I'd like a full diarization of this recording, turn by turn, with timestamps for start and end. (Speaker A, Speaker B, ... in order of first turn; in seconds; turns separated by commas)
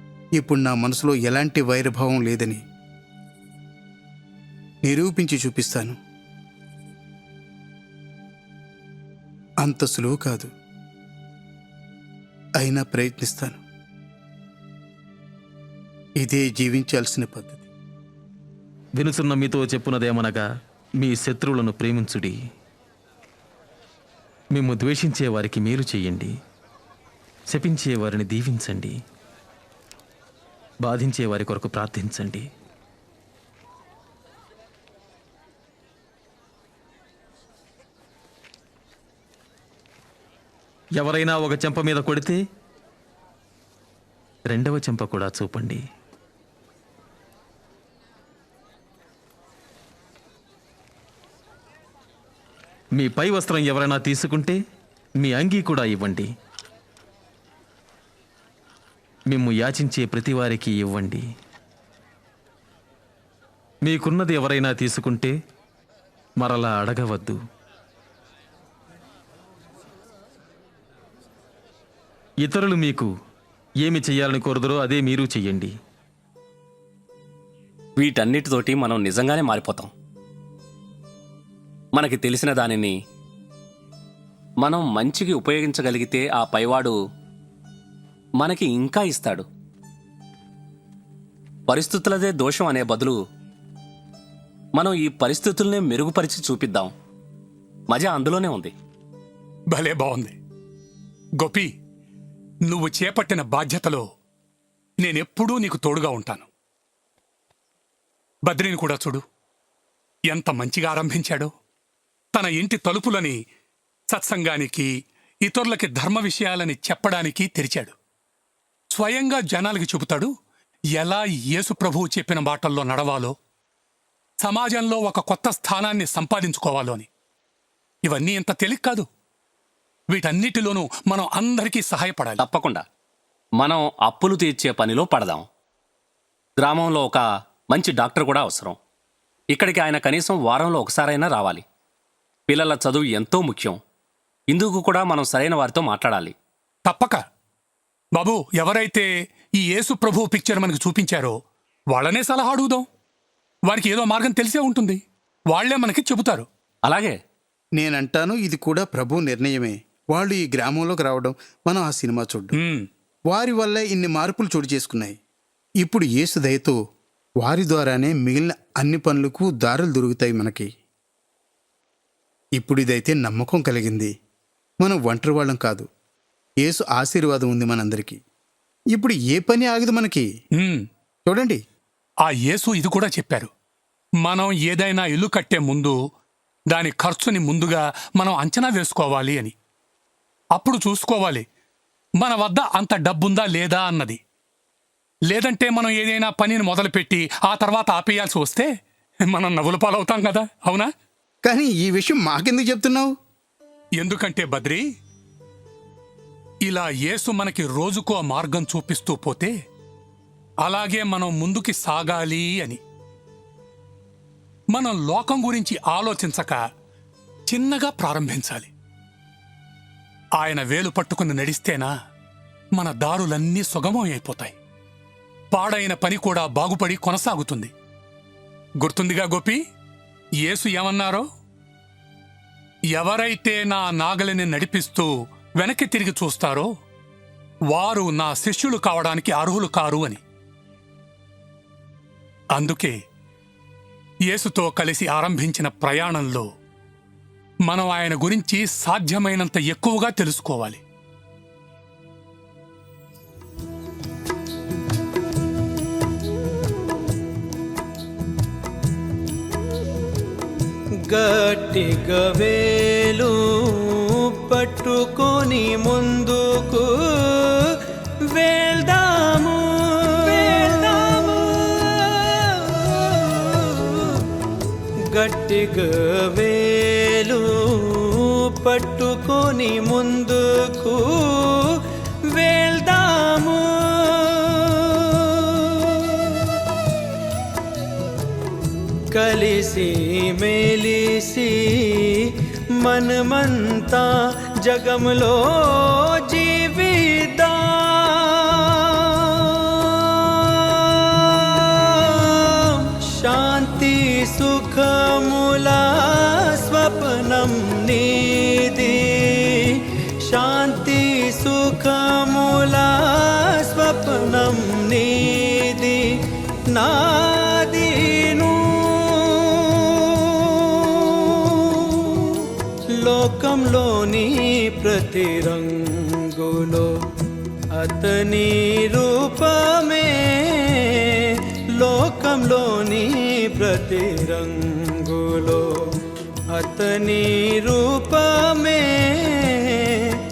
Speaker A: 0.4-2.6, Speaker A: 4.8-6.0, Speaker A: 9.6-10.5, Speaker A: 12.6-13.6, Speaker A: 16.2-17.7, Speaker B: 18.9-20.4, Speaker B: 21.0-22.4, Speaker B: 24.5-26.3, Speaker B: 27.5-28.9, Speaker B: 30.8-32.5, Speaker B: 41.0-42.4, Speaker B: 44.5-45.8, Speaker B: 53.0-54.6, Speaker B: 55.2-56.3, Speaker B: 59.3-61.2, Speaker B: 63.8-65.3, Speaker B: 66.4-67.4, Speaker B: 72.4-73.1, Speaker B: 73.8-75.7, Speaker C: 78.0-79.9, Speaker C: 81.9-82.9, Speaker C: 84.6-86.9, Speaker C: 88.4-89.4, Speaker C: 91.7-93.2, Speaker C: 94.8-96.9, Speaker C: 97.9-98.7, Speaker D: 99.7-100.3, Speaker D: 101.4-101.7, Speaker D: 102.7-104.0, Speaker D: 105.0-106.5, Speaker D: 108.5-109.2, Speaker D: 110.3-111.5, Speaker D: 112.3-113.4, Speaker D: 114.1-114.9, Speaker D: 115.4-117.9, Speaker D: 118.9-120.3, Speaker D: 121.0-123.3, Speaker D: 124.4-127.1, Speaker D: 128.0-129.1, Speaker D: 130.1-132.4, Speaker C: 132.4-132.8, Speaker C: 133.6-135.4, Speaker C: 136.6-138.8, Speaker C: 139.5-141.6, Speaker C: 142.5-143.8, Speaker C: 144.5-146.3, Speaker D: 146.8-147.2, Speaker D: 148.1-149.1, Speaker D: 149.6-151.3, Speaker D: 151.9-152.8, Speaker D: 153.7-156.5, Speaker C: 156.8-157.2, Speaker A: 157.8-162.5, Speaker D: 162.6-162.8, Speaker A: 163.3-165.2, Speaker A: 165.8-166.8, Speaker A: 167.4-170.7, Speaker A: 172.6-174.1, Speaker A: 174.8-175.8, Speaker A: 176.6-178.2, Speaker A: 178.9-180.2, Speaker D: 180.6-180.8, Speaker A: 181.3-181.6, Speaker D: 182.2-183.5, Speaker D: 184.2-185.9, Speaker D: 186.7-189.5, Speaker D: 190.6-191.4, Speaker D: 192.2-194.2, Speaker D: 195.3-198.7, Speaker D: 199.3-200.9, Speaker A: 201.4-203.1, Speaker D: 204.0-204.8, Speaker D: 206.6-209.5, Speaker D: 210.6-212.8, Speaker D: 214.7-216.6, Speaker D: 217.5-218.7, Speaker D: 220.4-221.9, Speaker D: 222.7-224.5, Speaker D: 225.5-227.7, Speaker D: 228.8-229.6, Speaker D: 230.4-231.2, Speaker D: 232.9-236.7, Speaker D: 237.7-240.2, Speaker D: 242.5-242.9, Speaker D: 244.3-246.4, Speaker D: 247.7-250.8, Speaker E: 261.1-263.3, Speaker E: 264.3-266.9, Speaker E: 268.4-269.6, Speaker E: 270.3-273.7, Speaker E: 275.1-277.4, Speaker E: 277.9-281.0, Speaker E: 282.3-283.6, Speaker E: 289.1-292.0, Speaker E: 292.8-294.1, Speaker E: 294.6-298.4, Speaker E: 303.2-309.8, Speaker E: 310.3-316.0, Speaker E: 316.7-319.4, Speaker E: 323.0-326.9, Speaker E: 327.8-331.0, Speaker E: 331.8-335.7, Speaker E: 336.5-339.8